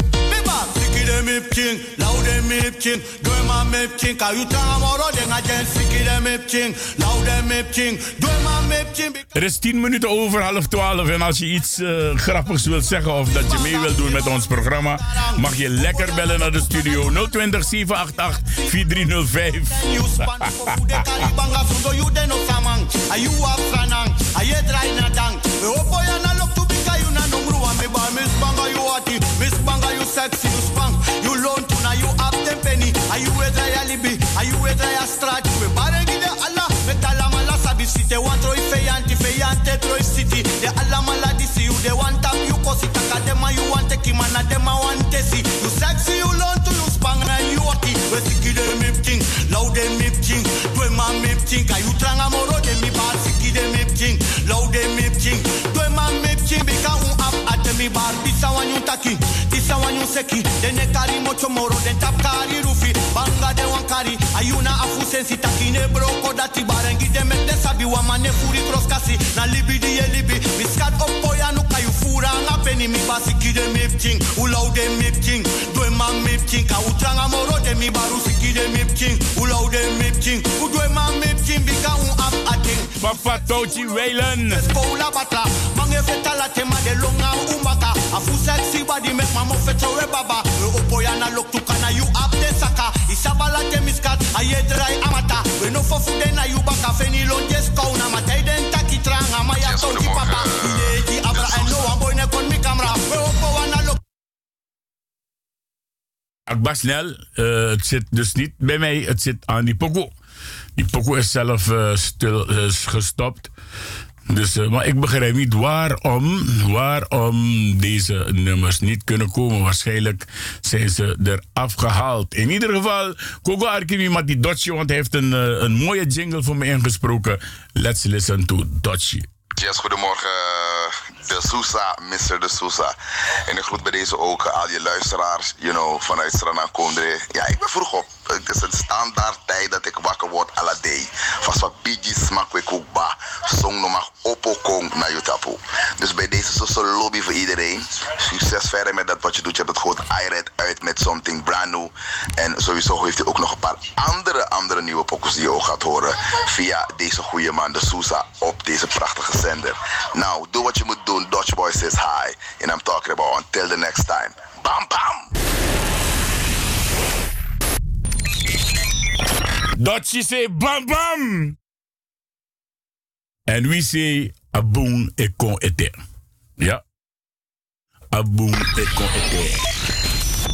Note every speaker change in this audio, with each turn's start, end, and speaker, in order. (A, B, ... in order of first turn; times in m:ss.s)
0:00.3-0:09.3 A
0:09.3-0:19.8 B
0:13.3-0:17.3 A
0:18.4-0:18.8 A
0:19.7-1:44.0 A
1:23.0-1:24.6 B
1:39.6-1:41.7 C
1:46.5-1:50.1 B
1:50.8-1:53.5 B
1:54.3-2:09.2 B
2:09.6-2:13.0 C
2:13.5-2:45.3 C
2:49.8-2:51.5 B
2:53.5-2:55.9 B
2:58.1-2:59.6 B